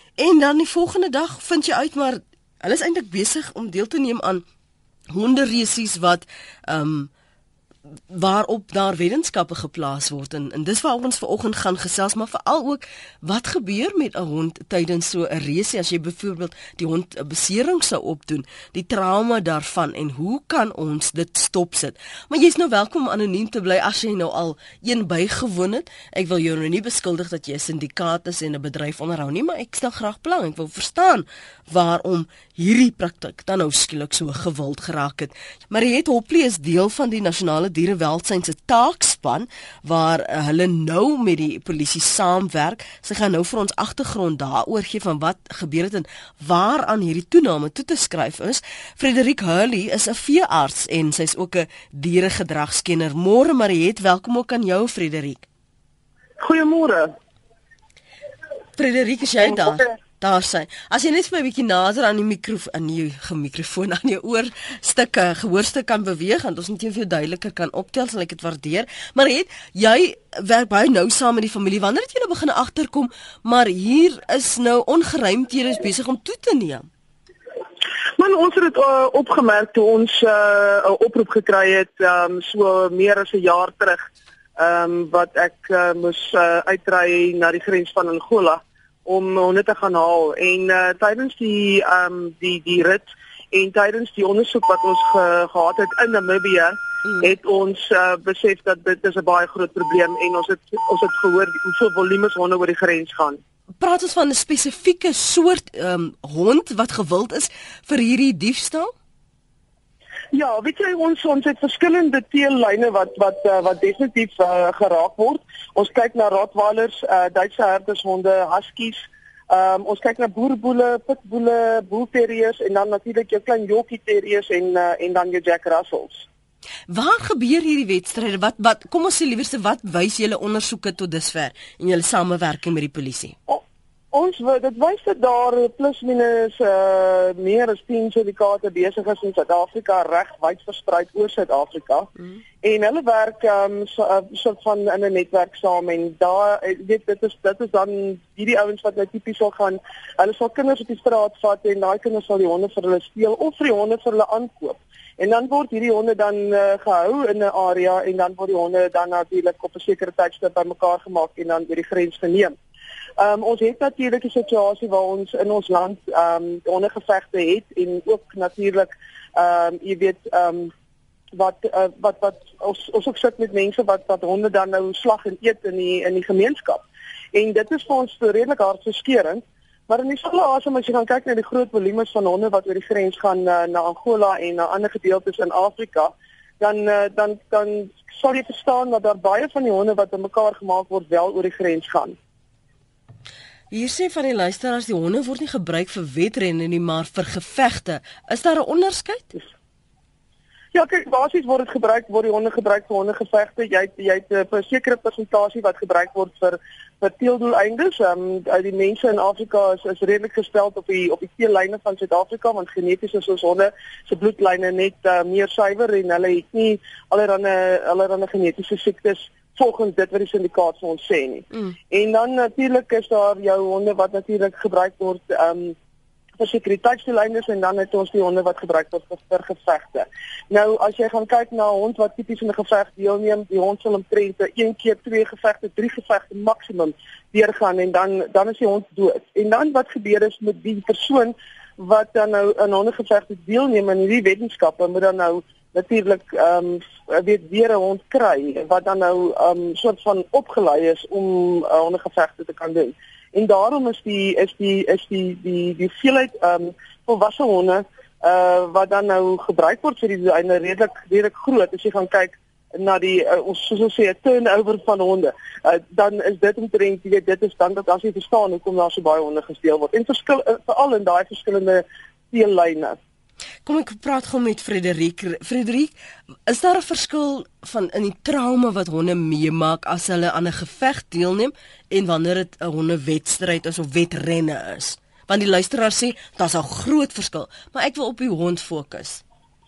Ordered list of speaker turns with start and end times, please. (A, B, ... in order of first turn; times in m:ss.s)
0:00.2-0:04.4 A
0:05.1-0:07.1 A
0:08.1-0:55.5 A
0:56.4-0:57.2 B
0:58.8-1:16.9 A
1:18.2-1:43.4 B
1:43.8-1:48.9 A
1:50.3-2:06.3 B
2:06.9-2:13.4 A
2:13.5-2:22.1 B
2:22.6-2:42.6 B
2:43.2-2:50.7 B
2:51.3-3:12.2 B
3:13.7-3:19.4 A
3:20.7-3:45.8 B
3:46.4-4:33.0 B
4:33.6-4:36.0 A
4:36.5-4:49.2 A